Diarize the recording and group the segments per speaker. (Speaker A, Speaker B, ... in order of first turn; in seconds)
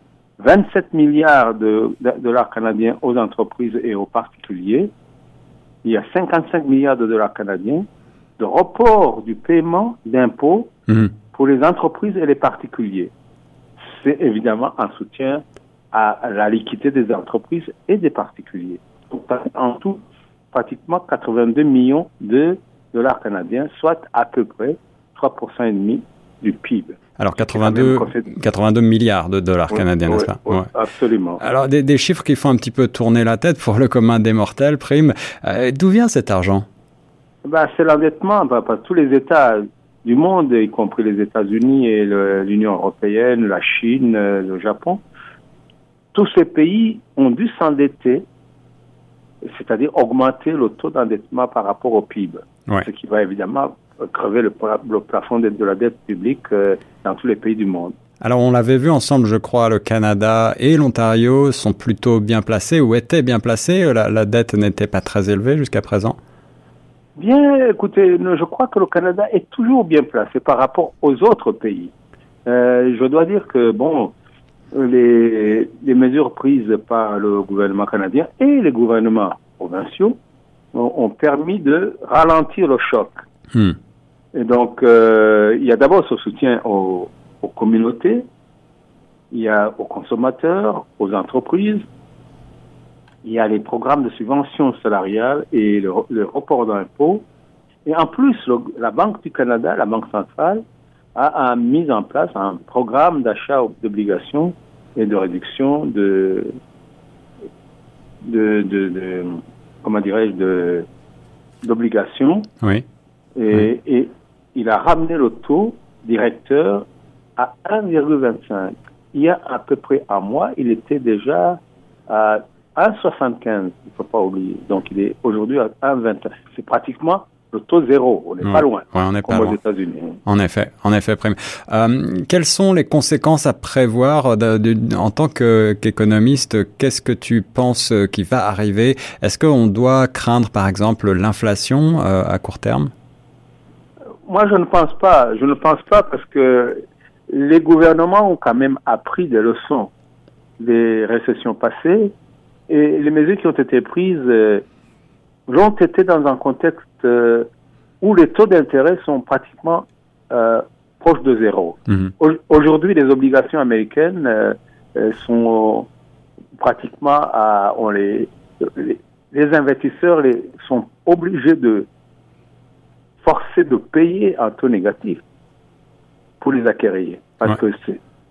Speaker A: 0.4-4.9, 5.8-7.8, 8.4-10.7, 11.3-13.1, 13.9-20.0, 20.5-28.3, 29.7-31.4, 37.4-45.0, 46.1-48.2, 49.4-57.9, 67.2-71.9, 72.5-74.1, 74.7-80.2, 80.7-83.2, 84.3-88.2, 89.3-91.8, 93.2-97.2, 97.8-100.6, 101.1-106.5, 108.2-110.8, 111.6-112.5, 113.3-116.8, 117.4-130.2, 144.2-149.9, 150.6-152.1, 152.7-154.6, 155.5-157.5, 158.0-165.9, 166.6-171.9, 173.2-175.2, 176.4-178.0
Speaker B: 27.2-30.7, 31.4-36.6, 58.2-66.2, 128.5-129.6, 130.2-142.9